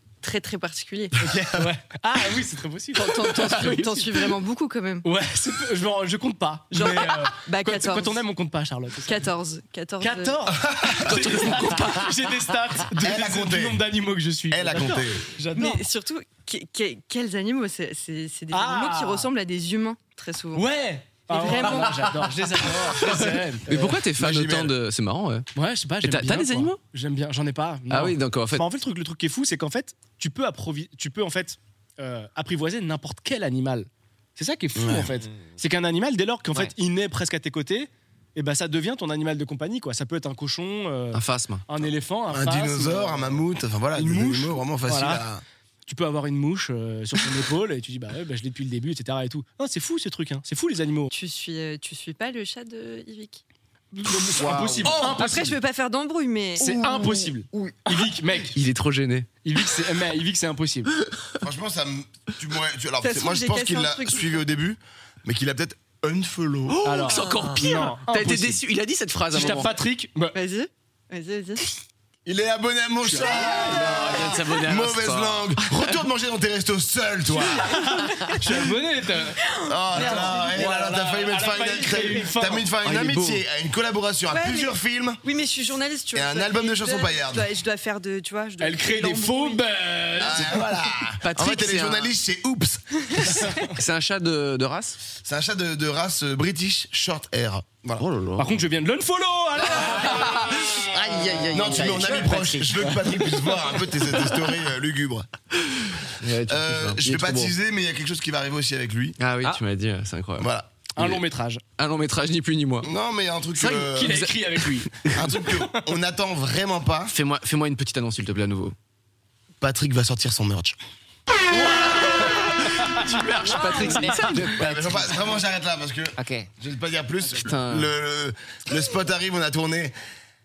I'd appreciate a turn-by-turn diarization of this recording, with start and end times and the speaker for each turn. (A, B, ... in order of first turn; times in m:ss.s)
0:00.2-0:01.3 A
0:01.2-0:04.3 B
0:03.0-0:05.1 A
0:05.0-0:09.2 B
0:06.7-0:08.2 A
0:09.0-0:10.4 A
0:10.0-0:15.8 B
0:10.6-0:11.1 C
0:11.0-0:12.2 D
0:13.0-0:13.8 C
0:14.5-0:15.3 C
0:15.5-0:20.7 A
0:18.5-0:19.3 B
0:20.6-0:24.0 B
0:21.3-0:22.1 A
0:23.1-0:25.5 D
0:24.2-0:24.7 C
0:25.6-0:43.4 B
0:26.0-0:26.8 D
0:27.9-0:28.6 D
0:34.8-0:35.1 C
0:41.1-0:41.6 D
0:42.3-0:45.4 C
0:44.0-0:45.2 B
0:45.9-0:51.1 B
0:51.1-0:53.4 A
0:53.9-0:55.6 B
0:55.0-0:57.0 A
0:56.6-0:58.6 B
0:58.5-0:59.3 D
0:59.4-1:00.9 B
1:01.4-1:06.8 C
1:03.0-1:04.3 A
1:06.7-1:09.8 D
1:06.8-1:08.6 B
1:09.3-1:10.4 B
1:10.3-1:11.7 A
1:12.3-1:17.8 C
1:13.1-1:14.2 B
1:13.6-1:16.0 D
1:17.6-1:22.7 B
1:19.5-1:20.4 A
1:19.7-1:25.2 C
1:22.8-1:23.4 D
1:24.3-1:29.6 A
1:26.1-1:27.5 C
1:28.6-1:30.7 B
1:30.2-1:33.5 C
1:31.2-1:32.1 D
1:33.1-1:33.6 A
1:33.5-1:35.0 D
1:35.2-1:38.0 C
1:38.0-1:38.6 D
1:38.4-1:40.4 B
1:39.8-1:42.9 E
1:39.8-1:40.8 D
1:41.5-1:45.3 C
1:45.9-1:47.5 D
1:46.5-1:49.2 C
1:49.2-1:51.2 D
1:50.4-1:50.7 C
1:51.0-1:51.6 B
1:51.8-1:52.9 D
1:52.8-1:54.2 C
1:53.6-1:55.8 B
1:54.0-1:55.2 D
1:55.2-1:57.1 C
1:57.1-1:58.8 D
1:59.6-2:00.8 C
2:01.5-2:04.6 D
2:03.5-2:05.0 E
2:04.6-2:10.0 C
2:06.2-2:06.5 E
2:07.4-2:07.9 D